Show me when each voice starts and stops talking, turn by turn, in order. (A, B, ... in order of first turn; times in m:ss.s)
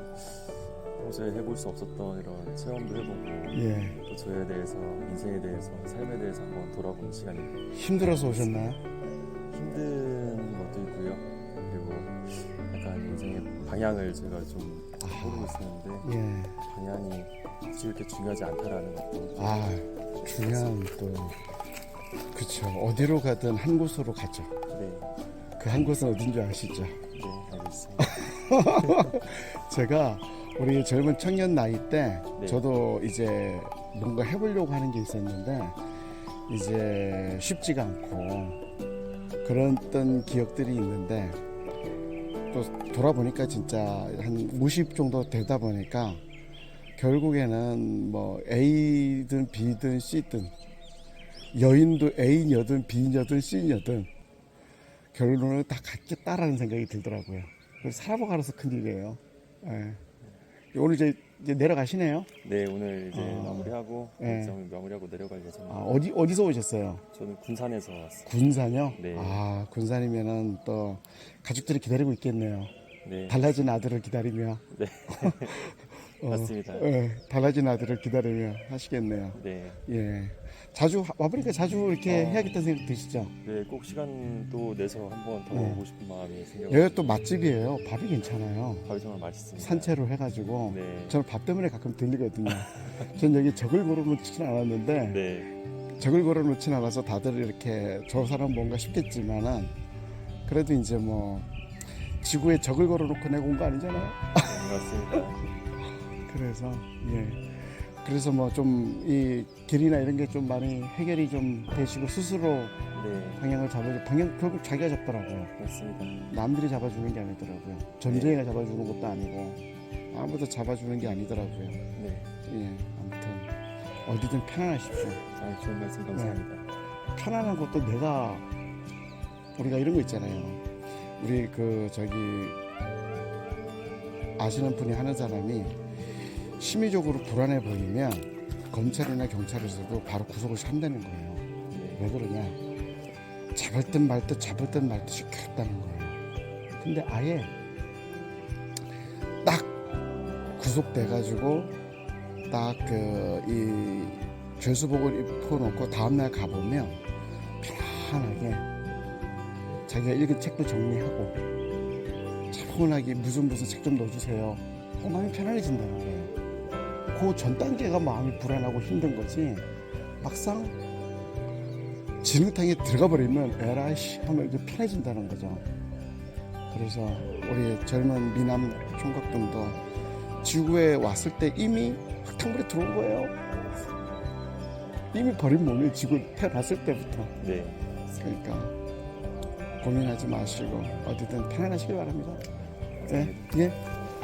0:00.2-0:08.7 A
0:03.5-0:04.0 B
0:07.7-0:08.8 B
0:09.5-0:16.1 A
0:15.0-0:16.6 B
0:16.7-0:19.7 A
0:19.4-0:21.4 B
0:20.2-0:20.8 A
0:22.3-0:24.5 B
0:24.7-0:25.2 A
0:25.6-0:27.0 B
0:27.1-0:29.2 A
0:28.0-0:35.8 B
0:32.4-0:32.6 A
0:36.5-0:38.6 B
0:39.4-0:41.4 B
0:42.5-0:46.2 B
0:47.0-0:50.5 B
0:51.5-0:54.1 B
0:55.1-1:00.0 B
1:00.7-1:02.3 B
1:02.4-1:06.0 A
1:03.1-1:04.6 B
1:05.7-1:07.0 B
1:07.1-1:09.4 A
1:08.3-1:12.7 B
1:13.0-1:13.4 A
1:13.3-1:23.3 B
1:14.7-1:16.9 A
1:19.4-1:19.8 A
1:22.0-1:22.6 A
1:23.4-1:27.3 A
1:25.5-1:25.8 B
1:26.7-1:28.9 B
1:28.9-1:30.0 A
1:29.6-1:35.2 B
1:30.7-1:31.2 A
1:32.5-1:33.1 A
1:35.0-1:35.5 A
1:36.0-1:39.7 B
1:40.5-1:41.5 B
1:42.2-1:44.6 B
1:44.4-1:45.4 A
1:46.2-1:52.8 B
1:52.9-1:53.4 A
1:53.4-1:55.5 B
1:55.6-1:56.3 A
1:56.3-2:01.8 B
1:58.0-1:58.4 A
2:02.0-2:02.3 A
2:02.5-2:03.5 B
2:04.1-2:05.2 B
2:05.3-2:06.7 A
2:06.1-2:06.4 B
2:07.2-2:08.4 B
2:09.6-2:10.6 B
2:11.2-2:12.6 B
2:14.4-2:15.8 B
2:16.6-2:22.6 B
2:21.7-2:22.1 A
2:23.6-2:26.2 B
2:26.7-2:27.5 B
2:29.4-2:29.7 B
2:30.6-2:31.7 B
2:32.5-2:37.0 B
2:37.6-2:38.6 B
2:39.9-2:41.4 B
2:42.5-2:46.3 B
2:47.1-2:49.7 B
2:50.2-2:50.8 B
2:52.2-2:55.6 B
2:56.7-2:59.8 B
3:00.4-3:03.3 B
3:05.1-3:07.4 B
3:07.4-3:07.9 A
3:08.2-3:08.7 B
3:09.8-3:12.4 B
3:13.0-3:13.5 A
3:13.1-3:13.8 B